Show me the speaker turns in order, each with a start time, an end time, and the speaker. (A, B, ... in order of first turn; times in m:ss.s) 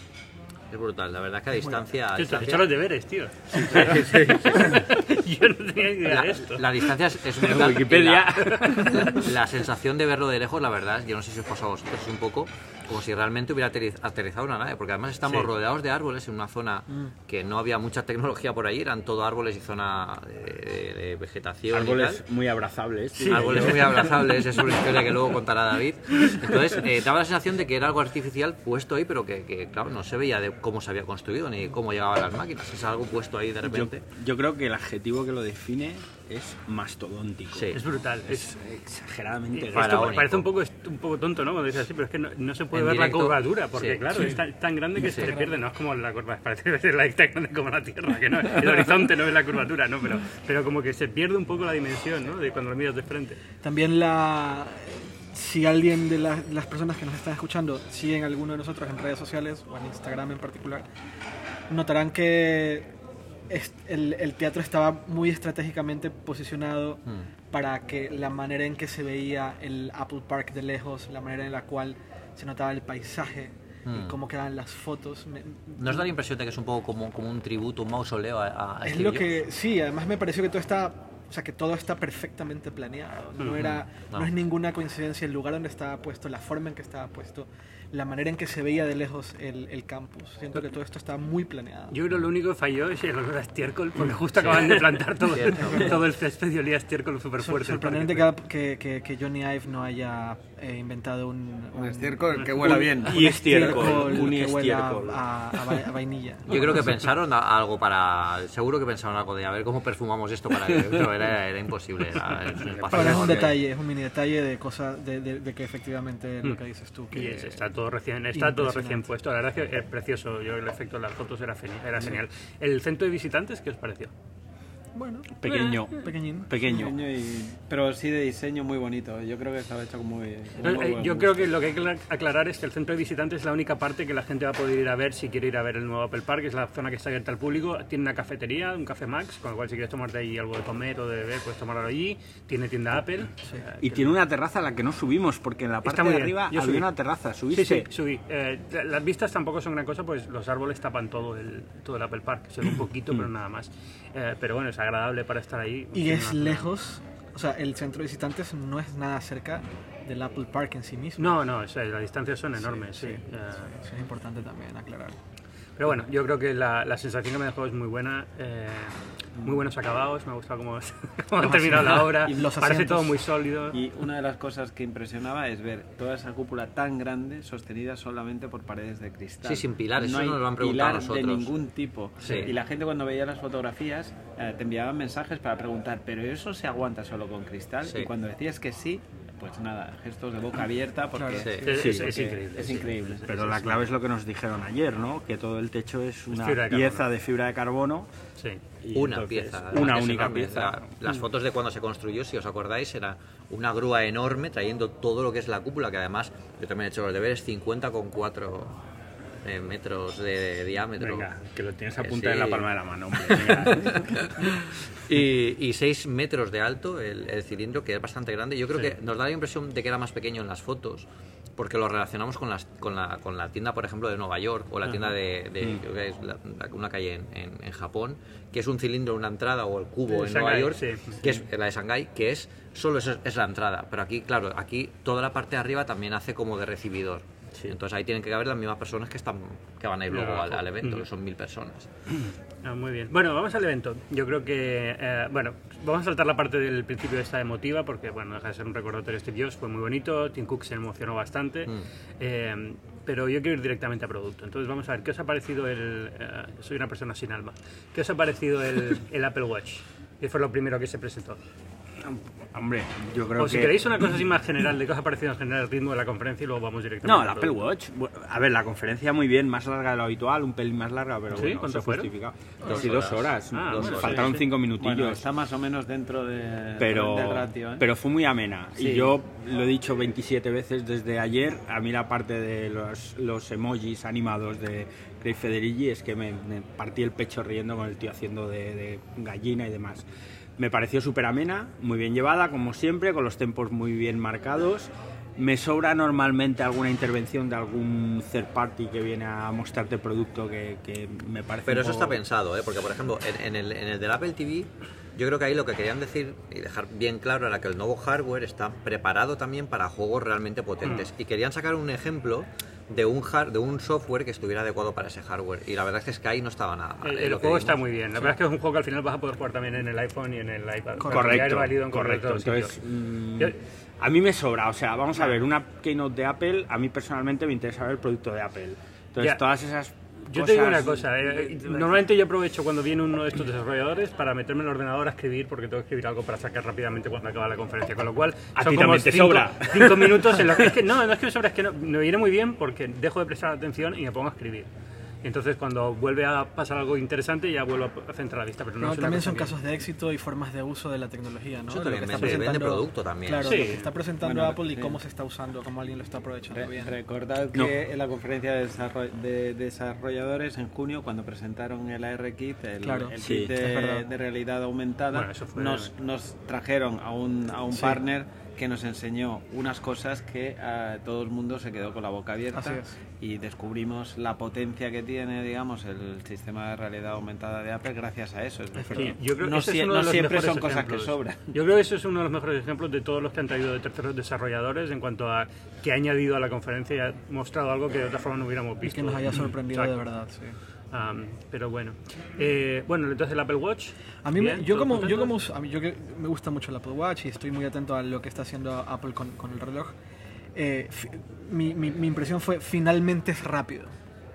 0:00.7-0:02.6 A
0:02.2-0:06.9 B
0:03.7-0:04.8 A
0:06.0-0:08.3 A
0:07.4-0:09.3 C
0:08.5-0:08.9 B
0:08.9-0:22.2 A
0:21.7-0:24.1 C
0:23.2-0:34.0 A
0:33.6-0:40.2 C
0:37.5-0:37.8 A
0:37.7-0:38.6 B
0:39.5-0:53.4 B
0:39.7-0:40.4 A
0:42.7-0:44.1 A
0:45.0-0:45.4 A
0:45.0-0:45.6 D
0:53.6-1:00.8 D
1:01.7-1:02.9 D
1:03.5-1:16.1 D
1:13.8-1:14.2 A
1:15.8-1:19.4 A
1:18.8-1:32.0 D
1:23.4-1:23.7 B
1:23.6-1:24.3 A
1:31.9-1:38.3 B
1:34.4-1:35.9 A
1:35.6-1:35.9 D
1:37.4-1:46.8 D
1:41.8-1:43.8 E
1:42.6-1:45.8 C
1:46.5-1:53.6 A
1:52.6-1:53.5 C
1:52.9-1:57.6 D
1:57.1-2:04.1 B
1:58.3-1:59.1 D
2:05.0-2:05.3 D
2:05.4-2:07.0 C
2:05.5-2:05.8 B
2:05.9-2:06.9 D
2:06.6-2:11.5 E
2:10.6-2:24.1 B
2:23.8-2:27.9 C
2:25.8-2:26.9 B
2:27.5-2:36.7 B
2:35.9-2:41.4 D
2:41.2-2:43.7 B
2:42.6-2:45.2 D
2:45.8-2:53.8 B
2:51.4-2:53.2 D
2:52.3-2:52.5 E
2:53.7-3:13.2 E
2:59.4-3:01.5 A
3:02.2-3:02.5 A
3:07.8-3:08.1 A
3:11.2-3:12.0 D
3:11.4-3:11.7 A
3:11.6-3:13.8 B
3:11.8-3:12.6 C
3:13.3-3:18.1 C
3:16.3-3:17.0 B
3:18.8-3:20.8 C
3:18.9-3:28.8 A
3:29.4-3:31.3 A
3:31.0-3:34.3 C
3:32.0-3:32.7 A
3:33.2-4:01.9 A
3:50.1-3:51.3 B
4:00.1-4:01.1 B
4:02.6-4:21.4 B
4:22.0-4:24.1 C
4:23.4-4:27.6 B
4:27.0-4:35.2 C
4:31.3-4:32.1 B
4:32.6-4:32.9 D
4:32.6-4:34.4 A
4:33.5-4:34.4 B
4:34.8-4:37.9 E
4:36.8-4:50.1 C
4:38.8-4:39.2 E
4:50.6-5:02.2 C
5:01.7-5:17.8 A
5:10.8-5:11.1 B
5:17.0-5:22.8 B
5:21.0-5:21.5 D
5:21.1-5:32.1 C
5:30.3-5:44.7 B
5:38.6-5:40.7 C
5:45.2-5:49.6 B
5:48.8-5:56.9 D
5:51.7-5:53.8 A
5:53.4-5:53.9 B
5:54.2-5:55.0 E
5:56.5-6:21.6 E
6:02.8-6:04.0 D
6:03.2-6:03.6 C
6:05.1-6:05.9 B
6:07.7-6:08.0 D
6:12.5-6:13.0 D
6:18.8-6:19.1 D
6:18.9-6:30.0 B
6:28.8-6:30.6 D
6:30.9-6:35.4 B
6:34.2-6:40.0 D
6:40.6-6:43.9 D